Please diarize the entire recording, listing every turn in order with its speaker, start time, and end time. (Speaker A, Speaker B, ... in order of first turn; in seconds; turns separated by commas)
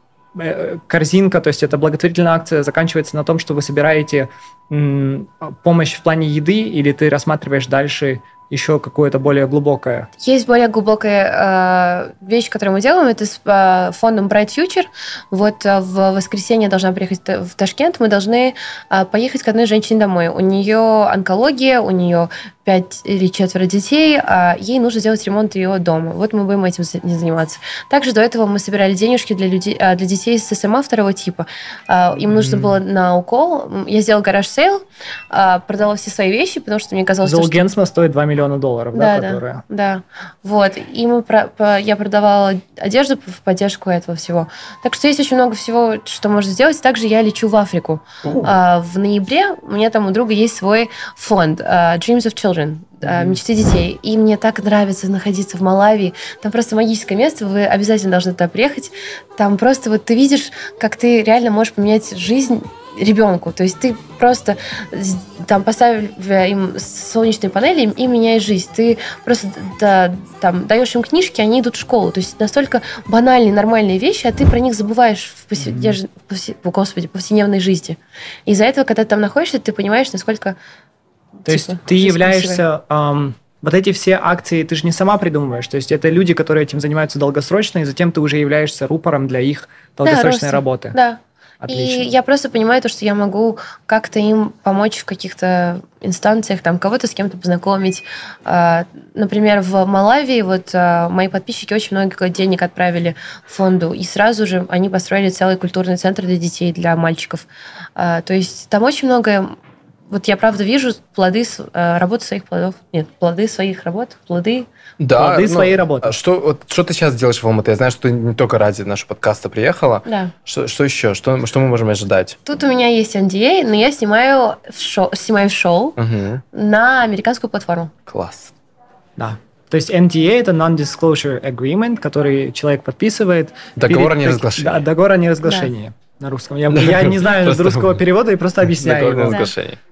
Speaker A: 0.3-10.1, Speaker B: 10.2-37.6, Speaker A: 32.3-32.8, Speaker A: 37.2-39.6, Speaker B: 38.9-80.6, Speaker C: 48.2-48.5, Speaker A: 75.6-76.0, Speaker B: 81.4-82.6, Speaker A: 81.5-91.0, Speaker B: 90.0-109.5, Speaker A: 91.6-92.1, Speaker B: 110.1-114.7, Speaker C: 115.0-122.5, Speaker A: 115.2-116.2, Speaker B: 120.0-120.3, Speaker B: 122.5-126.0, Speaker C: 126.0-126.4, Speaker B: 126.5-127.9, Speaker C: 128.1-128.5, Speaker A: 129.2-139.5, Speaker C: 133.8-134.8, Speaker B: 135.4-135.7, Speaker C: 136.7-138.0, Speaker C: 138.7-139.8